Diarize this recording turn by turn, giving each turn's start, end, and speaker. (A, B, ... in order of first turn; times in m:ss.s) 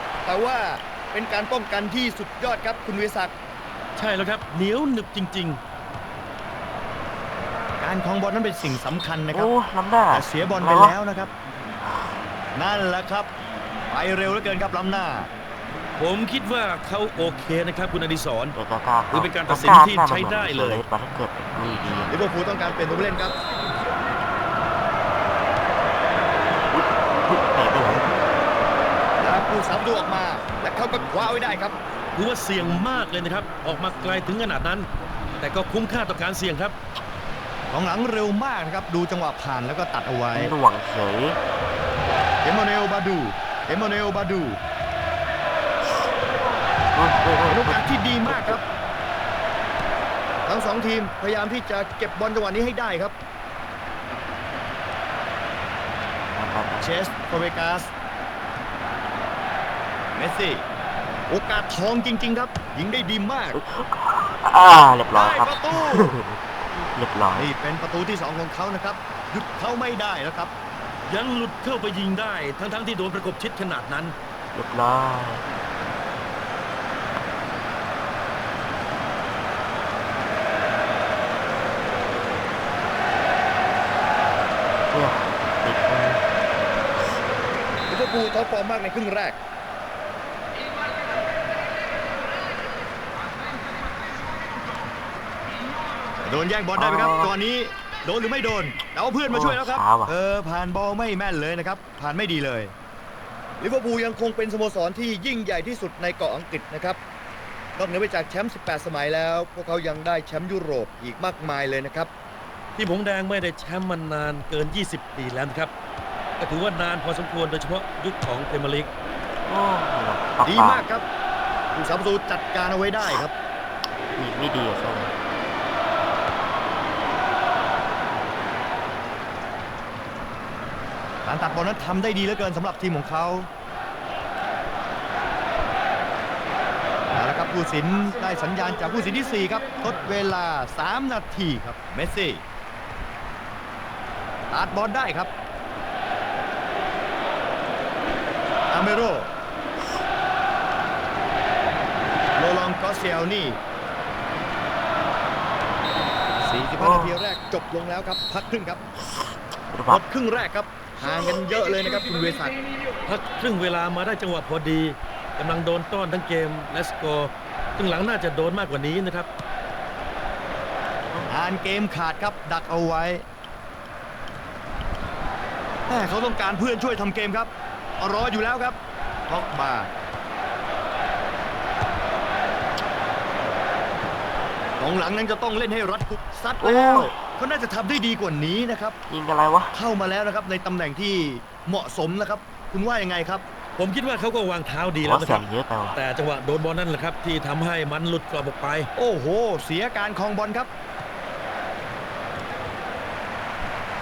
0:00.2-0:03.3 A
0:04.0-0:05.6 B
0:07.8-0:09.5 A
0:09.3-0:11.0 C
0:10.1-0:11.3 A
0:12.5-0:13.3 A
0:13.9-0:15.3 A
0:16.0-0:18.6 B
0:18.5-0:22.2 C
0:19.1-0:20.8 B
0:22.1-0:23.4 A
0:26.7-0:28.2 C
0:29.2-0:31.8 A
0:32.2-0:34.9 B
0:35.4-0:36.7 B
0:37.7-0:40.5 A
0:40.3-0:41.4 C
0:42.4-0:44.6 A
0:46.9-0:48.6 C
0:47.5-0:48.6 A
0:50.4-0:53.1 A
0:56.3-0:56.9 C
0:56.8-0:57.9 A
1:00.1-1:00.6 A
1:01.3-1:03.6 A
1:03.5-1:07.5 C
1:05.1-1:06.1 A
1:07.4-1:10.5 A
1:11.1-1:14.1 B
1:14.5-1:15.5 C
1:24.9-1:26.3 C
1:27.9-1:29.4 A
1:36.2-1:42.7 A
1:36.7-1:37.3 C
1:39.3-1:40.1 C
1:43.6-1:47.0 A
1:47.8-1:52.1 A
1:52.8-1:55.7 B
1:56.4-1:58.9 B
1:59.5-2:00.8 C
2:00.4-2:01.0 A
2:01.7-2:03.3 A
2:04.2-2:05.1 C
2:11.2-2:13.5 A
2:17.1-2:22.4 A
2:24.5-2:25.3 A
2:28.7-2:29.3 A
2:32.4-2:33.6 A
2:36.4-2:38.8 A
2:36.8-2:37.2 C
2:39.2-2:40.0 C
2:39.9-2:42.6 A
2:43.0-2:49.3 B
2:51.3-2:53.2 A
2:55.9-2:59.9 A
3:04.8-3:09.0 A
3:06.6-3:07.1 C
3:09.1-3:09.8 C
3:09.7-3:13.4 A
3:13.8-3:18.9 B
3:15.0-3:16.0 C
3:18.9-3:20.7 A